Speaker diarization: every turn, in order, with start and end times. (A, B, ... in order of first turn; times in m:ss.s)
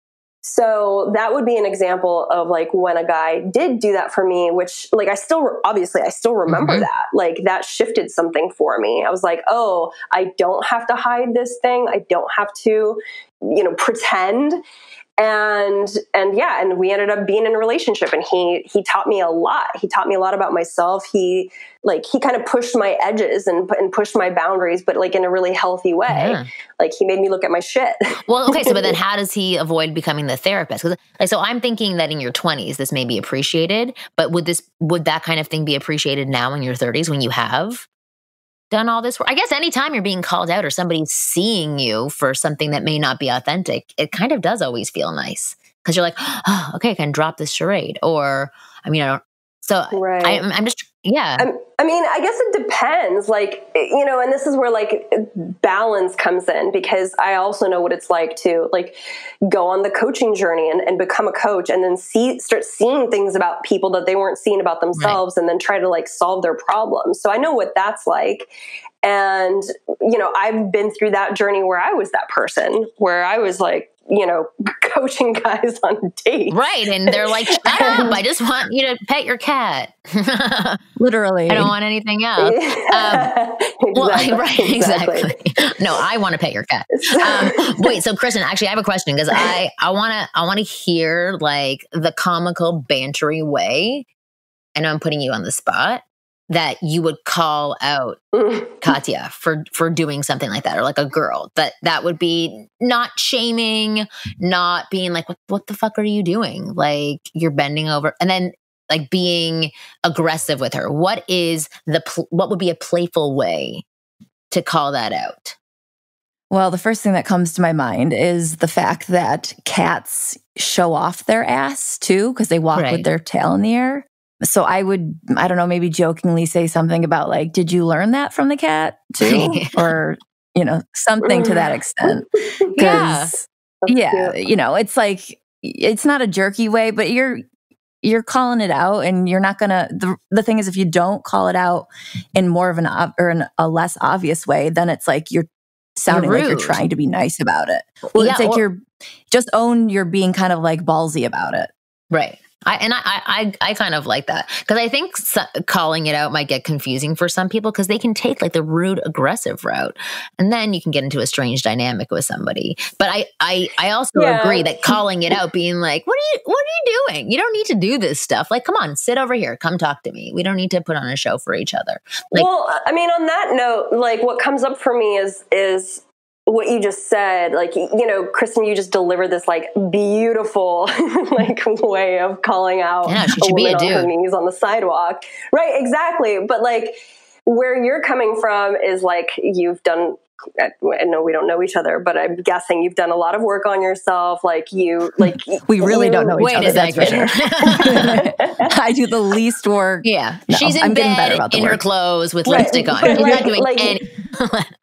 0:00.4-0:14.6 A
0:06.5-0:06.9 B
0:15.2-0:29.0 A
0:26.1-0:26.5 B
0:28.3-0:37.9 B
0:38.7-0:51.5 B
0:49.9-0:50.4 A
0:51.4-1:08.5 A
1:09.0-1:18.2 A
1:16.5-1:20.8 B
1:21.0-1:21.7 C
1:21.5-1:23.3 B
1:22.4-1:25.4 A
1:23.9-1:34.1 B
1:27.0-1:27.9 A
1:34.8-1:38.2 B
1:38.3-1:38.8 A
1:38.8-1:53.8 B
1:54.5-1:55.6 B
1:56.5-2:17.4 C
2:02.7-2:03.1 B
2:09.2-2:09.9 B
2:11.2-2:12.2 A
2:12.7-2:13.4 B
2:13.8-2:14.4 A
2:18.0-2:31.7 C
2:26.1-2:26.8 B
2:28.1-2:28.6 B
2:32.1-2:52.5 B
2:44.2-2:45.4 A
2:52.3-3:18.7 A
3:03.1-3:04.1 B
3:15.2-3:21.8 C
3:16.4-3:18.3 B
3:20.0-3:24.7 B
3:22.5-3:24.0 A
3:22.5-3:23.4 C